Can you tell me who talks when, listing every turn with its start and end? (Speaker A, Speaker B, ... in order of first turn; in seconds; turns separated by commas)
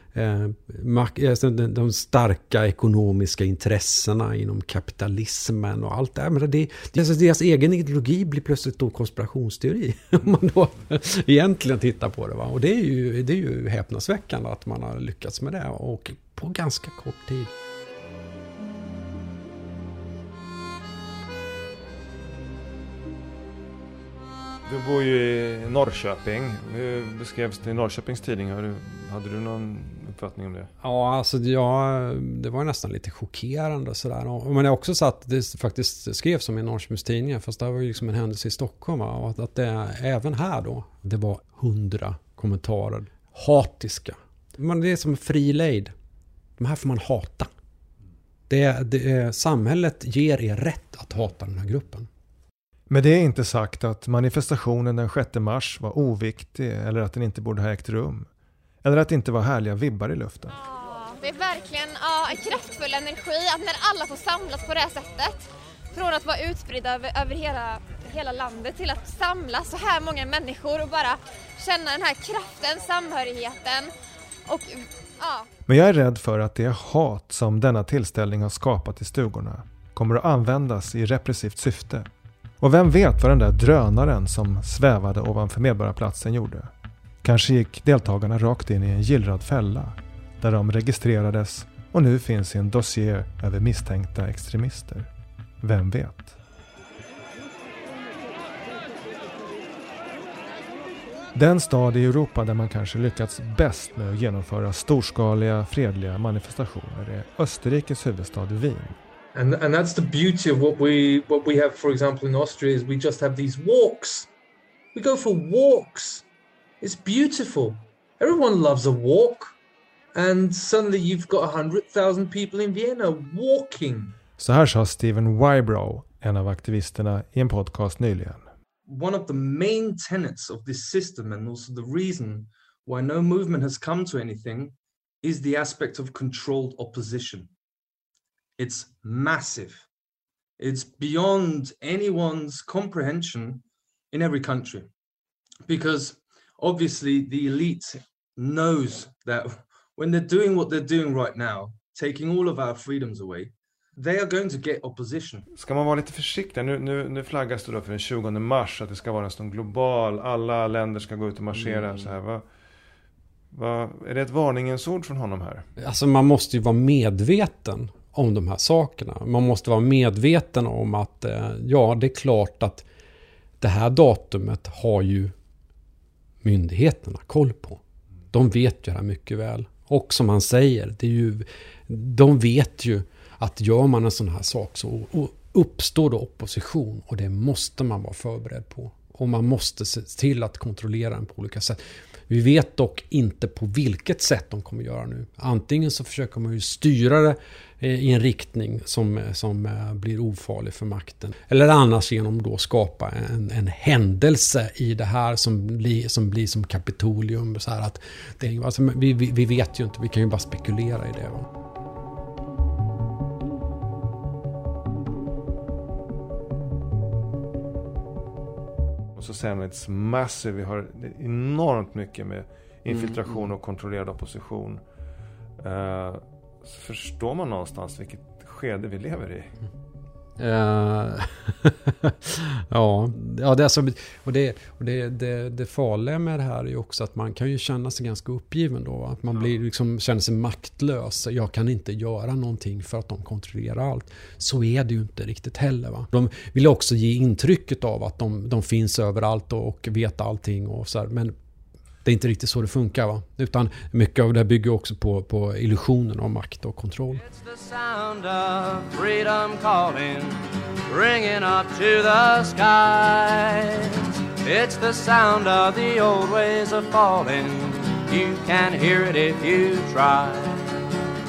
Speaker A: 0.1-17.5, Speaker B: 24.6-30.7, Speaker A: 30.8-45.9, Speaker A: 46.6-47.5, Speaker A: 48.5-52.1, Speaker B: 52.9-58.3, Speaker B: 58.8-60.5, Speaker C: 60.7-65.4, Speaker C: 65.9-73.9, Speaker C: 74.5-75.4, Speaker B: 75.7-82.1, Speaker B: 82.6-86.7, Speaker B: 87.2-95.1, Speaker B: 95.6-96.4, Speaker B: 101.3-109.0, Speaker D: 109.3-114.3, Speaker D: 114.9-116.2, Speaker D: 116.8-119.5, Speaker D: 120.1-124.2, Speaker B: 124.4-128.5, Speaker D: 128.8-137.5, Speaker D: 138.6-139.9, Speaker D: 140.6-144.9, Speaker D: 145.7-155.5, Speaker B: 155.5-162.4, Speaker B: 163.5-165.7, Speaker A: 165.8-172.8, Speaker A: 173.6-175.3, Speaker A: 176.4-177.8, Speaker A: 178.3-191.8, Speaker A: 192.3-211.5, Speaker B: 219.1-224.8, Speaker A: 222.9-223.2, Speaker B: 225.6-229.5, Speaker A: 230.4-251.3, Speaker A: 252.0-257.2, Speaker E: 257.1-270.8